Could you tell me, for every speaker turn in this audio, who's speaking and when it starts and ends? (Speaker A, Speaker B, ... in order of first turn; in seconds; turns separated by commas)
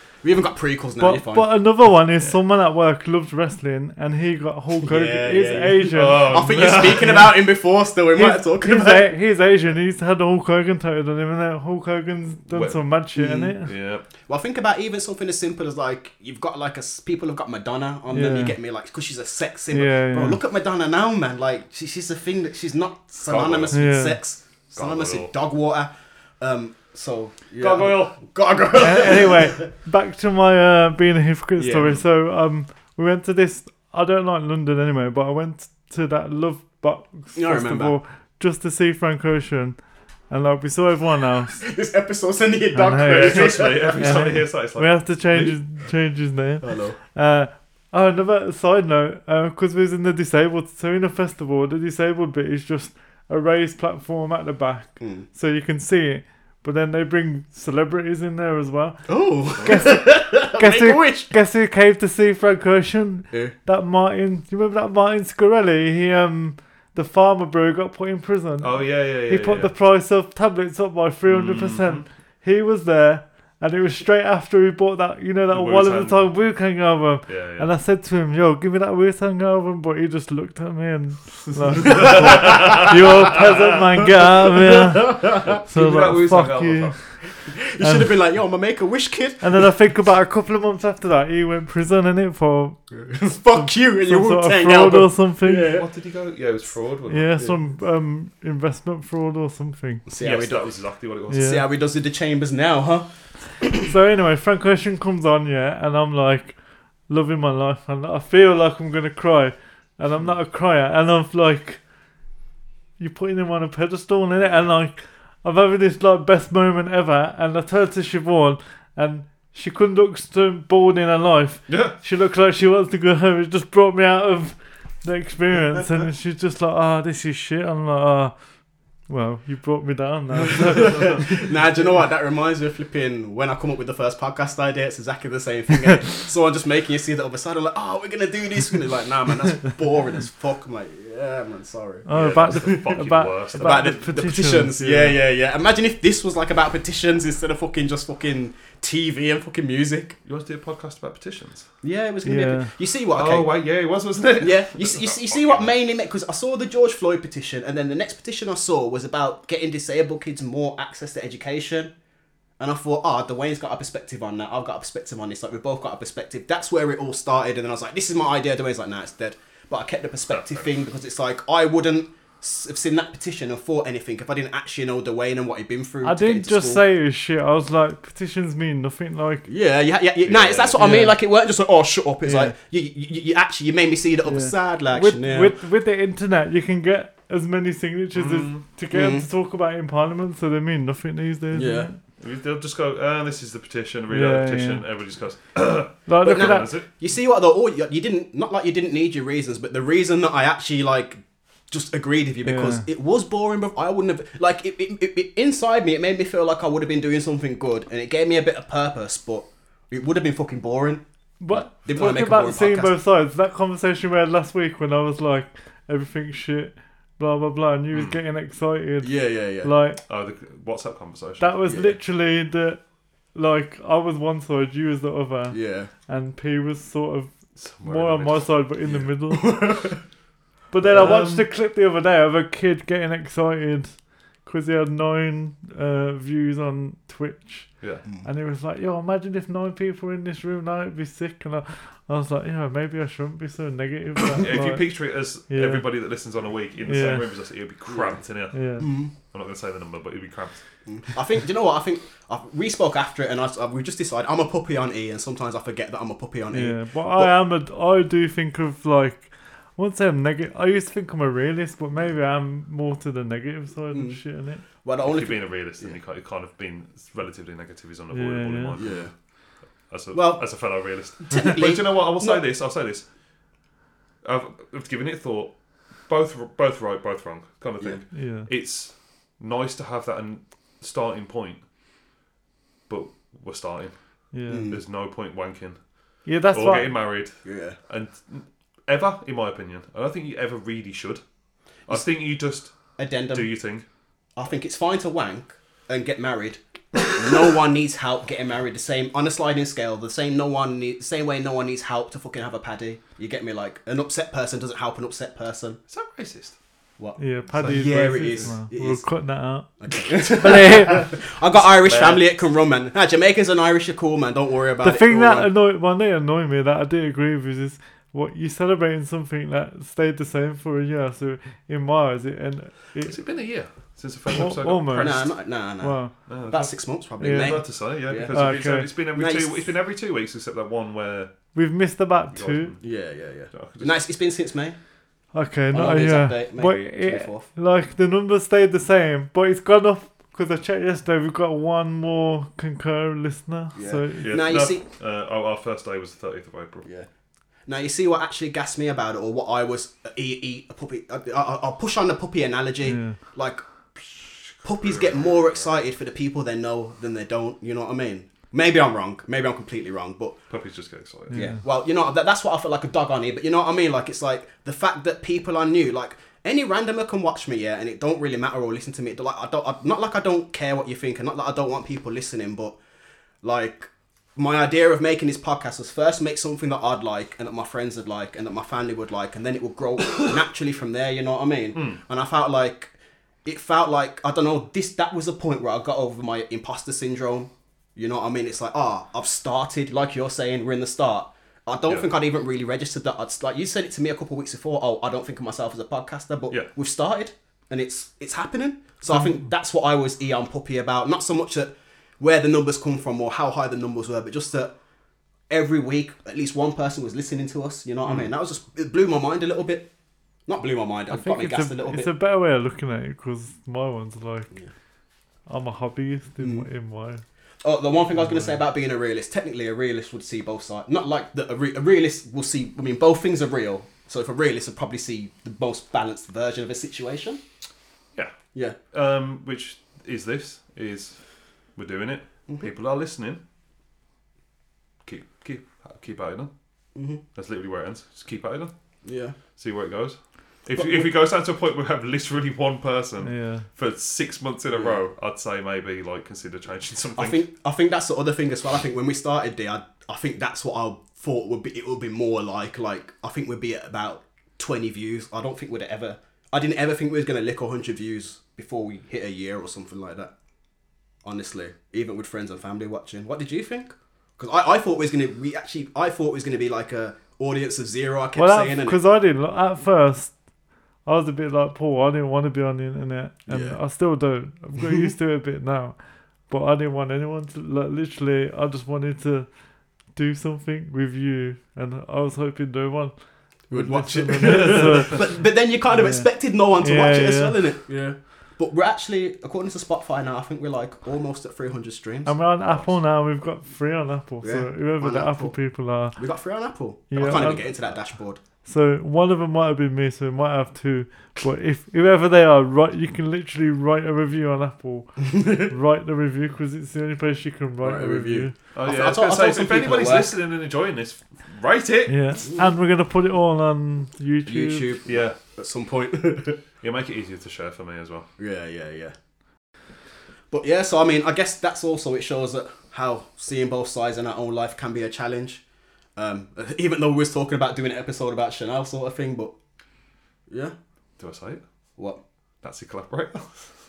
Speaker A: 0.2-1.5, Speaker B: 1.0-6.4, Speaker A: 4.8-9.1, Speaker C: 5.9-7.3, Speaker B: 8.1-13.7, Speaker C: 12.5-12.8, Speaker A: 13.2-13.6, Speaker C: 13.6-14.0, Speaker A: 14.2-29.6, Speaker B: 18.1-18.6, Speaker B: 19.7-20.4, Speaker C: 23.2-23.8, Speaker B: 23.7-24.2, Speaker C: 24.7-25.3, Speaker C: 27.6-28.2, Speaker B: 28.8-41.6, Speaker A: 31.6-32.0, Speaker A: 37.3-38.0, Speaker A: 41.6-44.3, Speaker B: 42.7-87.2, Speaker C: 43.0-45.5, Speaker A: 46.6-47.0, Speaker A: 55.0-55.2, Speaker A: 59.1-61.3, Speaker C: 68.6-69.7, Speaker C: 71.2-72.0, Speaker C: 75.5-76.3, Speaker C: 77.3-77.7, Speaker C: 81.8-83.0, Speaker A: 81.8-82.9, Speaker A: 85.0-85.6, Speaker C: 85.4-87.2, Speaker A: 87.3-89.5, Speaker B: 87.8-88.2, Speaker B: 89.4-92.8, Speaker A: 92.9-95.9, Speaker B: 93.5-95.7, Speaker C: 95.6-97.4, Speaker B: 97.1-100.0, Speaker A: 100.1-100.7, Speaker C: 100.2-101.6, Speaker B: 101.3-101.6, Speaker A: 101.3-103.1, Speaker B: 103.8-106.6, Speaker B: 107.1-111.8, Speaker B: 113.0-128.3, Speaker C: 121.7-122.0, Speaker B: 129.1-131.4, Speaker A: 130.8-142.9, Speaker B: 142.1-145.2, Speaker C: 142.1-144.1, Speaker A: 143.5-150.2, Speaker C: 150.2-151.7, Speaker A: 151.8-153.5, Speaker B: 152.2-152.7, Speaker C: 153.1-155.7, Speaker A: 154.4-161.9, Speaker A: 162.6-176.8, Speaker C: 170.3-170.7, Speaker B: 176.0-179.5, Speaker A: 179.5-185.5, Speaker C: 180.2-180.9, Speaker B: 180.8-181.1, Speaker B: 182.2-182.5, Speaker B: 184.2-192.0, Speaker C: 188.1-188.6, Speaker A: 188.9-189.3, Speaker A: 191.5-191.9, Speaker C: 192.2-196.9, Speaker B: 194.1-194.8, Speaker B: 196.1-196.8, Speaker A: 196.2-212.9, Speaker B: 202.4-202.8, Speaker B: 211.4-220.0, Speaker C: 217.9-218.2, Speaker A: 219.0-219.7, Speaker C: 220.1-221.5, Speaker B: 221.4-222.8, Speaker A: 221.6-222.0, Speaker B: 223.3-229.7, Speaker A: 225.5-225.9, Speaker C: 227.6-228.6, Speaker A: 228.8-230.0, Speaker B: 230.7-245.8, Speaker C: 230.9-231.5, Speaker C: 237.8-238.0, Speaker C: 244.3-250.6, Speaker B: 246.8-247.2, Speaker A: 247.9-248.2, Speaker B: 248.5-248.9, Speaker A: 248.8-249.1, Speaker A: 250.9-257.3, Speaker B: 256.5-264.6, Speaker A: 263.9-266.0, Speaker C: 265.0-273.1, Speaker B: 268.1-268.8, Speaker A: 268.8-269.1, Speaker A: 270.1-272.4, Speaker C: 274.2-281.6, Speaker B: 278.1-278.5, Speaker C: 282.9-291.2, Speaker B: 284.3-284.7, Speaker A: 284.5-284.8, Speaker B: 286.2-286.9, Speaker A: 287.4-287.8, Speaker C: 291.9-293.8, Speaker A: 293.0-293.5, Speaker A: 294.4-305.8, Speaker C: 305.9-306.6, Speaker A: 307.0-309.0, Speaker B: 307.2-311.1, Speaker A: 309.8-315.5, Speaker C: 311.8-312.3, Speaker B: 314.8-323.2, Speaker C: 323.0-325.4, Speaker B: 324.4-326.1, Speaker A: 324.9-328.4, Speaker C: 326.2-331.5, Speaker B: 327.2-328.9, Speaker A: 329.1-329.7, Speaker B: 331.5-332.7, Speaker C: 332.3-332.9, Speaker A: 332.8-334.8, Speaker C: 333.5-334.1, Speaker B: 335.3-344.3, Speaker A: 335.7-337.5, Speaker A: 343.7-344.8, Speaker C: 344.2-346.9, Speaker A: 347.6-353.6, Speaker B: 352.8-353.2, Speaker C: 354.5-355.8, Speaker A: 354.6-360.4, Speaker C: 360.5-361.5, Speaker B: 361.3-361.6, Speaker A: 361.3-372.8, Speaker A: 373.4-382.9, Speaker C: 381.7-382.0, Speaker A: 383.4-404.7, Speaker A: 405.5-409.9, Speaker A: 410.5-412.1, Speaker B: 411.1-414.6, Speaker B: 415.4-417.2, Speaker A: 416.4-416.7, Speaker A: 417.6-427.4, Speaker B: 418.2-418.6, Speaker C: 428.9-431.2, Speaker C: 431.7-433.4, Speaker C: 435.0-436.5, Speaker A: 436.9-437.2, Speaker C: 437.3-438.7, Speaker A: 439.0-439.4, Speaker C: 439.5-447.4, Speaker A: 440.8-441.1, Speaker B: 443.2-443.6, Speaker A: 444.7-445.0, Speaker A: 447.2-460.3, Speaker A: 461.2-469.0, Speaker B: 468.4-470.4, Speaker B: 471.0-487.6, Speaker A: 473.5-473.8, Speaker A: 483.7-492.3, Speaker C: 484.4-485.1, Speaker B: 492.2-496.2, Speaker A: 494.4-495.6, Speaker A: 496.1-498.4, Speaker B: 497.1-497.9, Speaker B: 498.6-508.5, Speaker A: 507.8-510.3, Speaker C: 508.7-512.2, Speaker B: 512.1-514.9, Speaker A: 512.4-512.7, Speaker A: 514.5-516.6, Speaker C: 515.0-515.4, Speaker C: 516.8-518.3, Speaker A: 518.4-519.1, Speaker A: 520.5-525.6, Speaker A: 526.1-529.5, Speaker A: 530.5-530.7, Speaker C: 531.2-531.6, Speaker C: 532.6-533.7